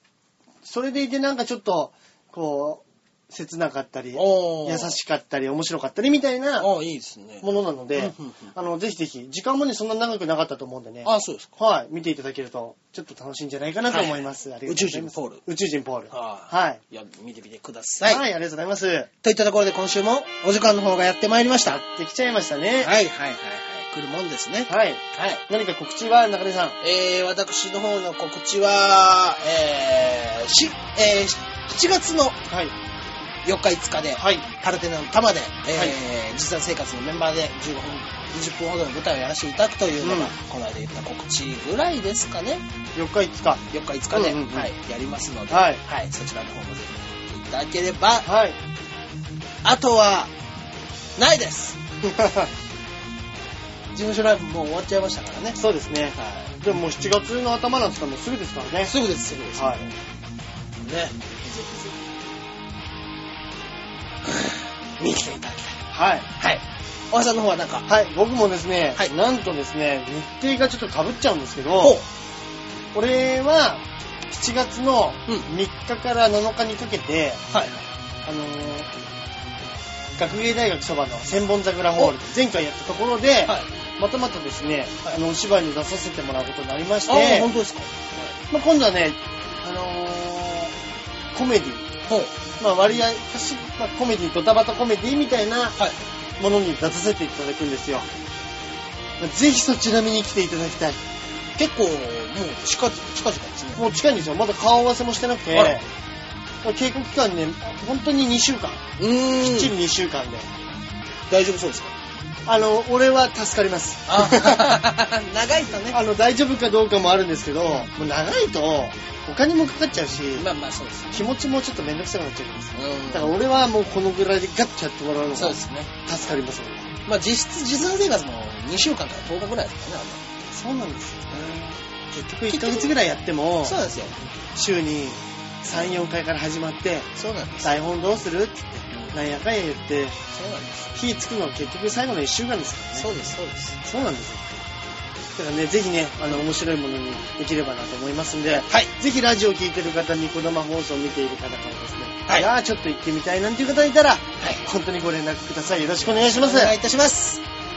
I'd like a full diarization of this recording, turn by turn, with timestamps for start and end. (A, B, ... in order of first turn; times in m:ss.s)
0:00.6-0:06.7 A
0:04.2-0:05.0 B
0:06.6-0:08.5 B
0:07.4-0:16.8 A
0:11.0-0:11.5 B
0:13.9-0:15.4 B
0:16.1-0:18.2 B
0:18.0-0:19.1 A
0:19.2-0:21.8 B
0:21.8-0:23.0 A
0:22.8-0:25.4 B
0:24.7-0:26.8 A
0:26.8-0:32.4 B
0:32.5-0:32.8 A
0:33.4-0:42.6 B
0:34.2-0:34.4 A
0:40.0-0:40.3 A
0:43.0-0:44.7 A
0:43.7-0:48.3 B
0:45.5-0:45.8 A
0:48.2-0:48.6 A
0:49.6-0:50.3 B
0:51.2-0:51.8 B
0:52.0-0:52.5 A
0:53.9-0:55.6 B
0:55.6-0:58.9 A
0:56.2-0:56.6 B
0:58.8-1:00.0 B
0:59.6-0:59.8 A
1:00.8-1:01.9 B
1:04.2-1:05.8 B
1:05.9-1:06.3 A
1:06.4-1:07.9 B
1:07.9-1:12.0 A
1:11.8-1:12.1 B
1:12.9-1:17.4 A
1:17.5-1:17.9 B
1:18.3-1:18.9 A
1:20.2-1:27.5 A
1:27.1-1:28.4 B
1:28.5-1:30.7 A
1:31.3-1:31.9 A
1:32.1-1:32.3 B
1:32.6-1:35.8 A
1:36.4-1:38.1 A
1:39.2-1:41.0 A
1:41.6-1:43.9 B
1:43.8-1:45.8 A
1:45.5-1:45.8 B
1:46.6-1:48.8 A
1:49.0-1:49.8 B
1:49.4-1:50.5 A
1:51.3-1:51.9 B
1:52.5-1:54.8 A
1:54.1-1:56.0 B
1:55.9-2:00.5 A
2:00.4-2:01.2 B
2:01.1-2:06.9 A
2:02.8-2:03.4 B
2:05.4-2:06.0 B
2:07.1-2:10.3 B
2:10.5-2:13.8 A
2:12.5-2:13.0 B
2:13.6-2:14.2 B
2:14.6-2:17.1 A
2:17.2-2:17.8 B
2:17.6-2:20.2 A
2:18.9-2:19.2 B
2:20.3-2:20.9 B
2:21.0-2:23.1 A
2:23.0-2:23.8 B
2:23.8-2:24.6 A
2:25.4-2:36.8 A
2:28.6-2:28.9 B
2:34.4-2:34.7 B
2:36.0-2:37.4 B